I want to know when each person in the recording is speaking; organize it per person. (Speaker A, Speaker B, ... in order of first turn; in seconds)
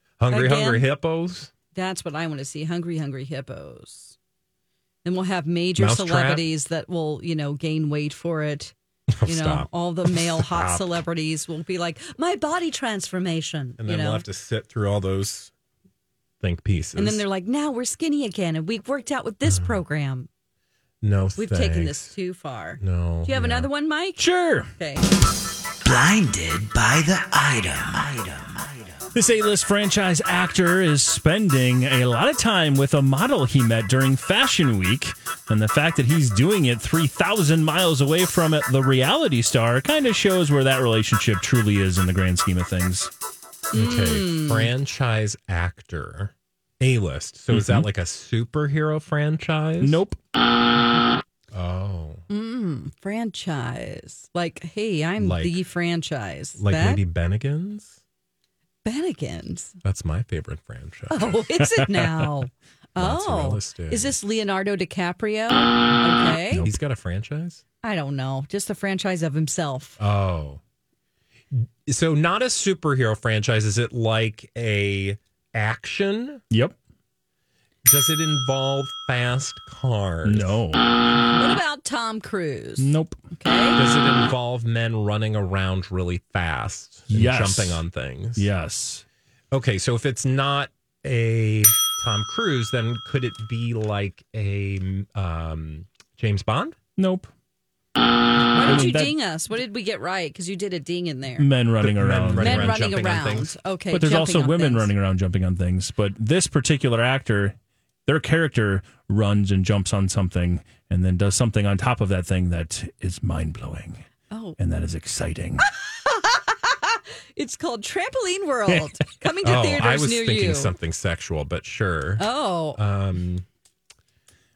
Speaker A: 0.2-1.5, 5.8-6.5, 9.2-10.9, 13.8-15.5, 16.4-17.2, 19.5-19.8, 21.0-22.1, 22.8-23.7, 43.7-50.0, 51.5-52.2, 55.2-55.6, 56.6-58.0, 59.8-61.4, 63.0-64.2, 66.7-67.6, 70.0-70.6, 71.5-76.4, 77.8-80.6, 83.8-88.5, 89.5-96.8, 101.8-103.5, 119.4-123.5
Speaker B: 0.3-0.9, 1.7-4.2, 5.0-8.7, 9.2-14.2, 17.0-20.3, 21.4-24.2, 24.8-25.1, 43.7-44.7, 52.3-57.0, 58.8-59.8, 61.1-66.7, 67.8-70.0, 81.4-83.8, 98.5-101.5, 102.4-104.9, 114.3-114.6, 115.8-120.7, 122.2-122.8
Speaker C: 24.2-24.7, 29.1-43.1, 47.5-47.9, 49.8-50.2, 80.2-80.8, 82.8-83.2, 87.1-87.8, 88.4-89.0, 97.0-97.3, 98.6-99.2, 101.4-102.9, 103.9-107.5, 108.1-114.0, 114.6-115.7
Speaker D: 25.8-29.0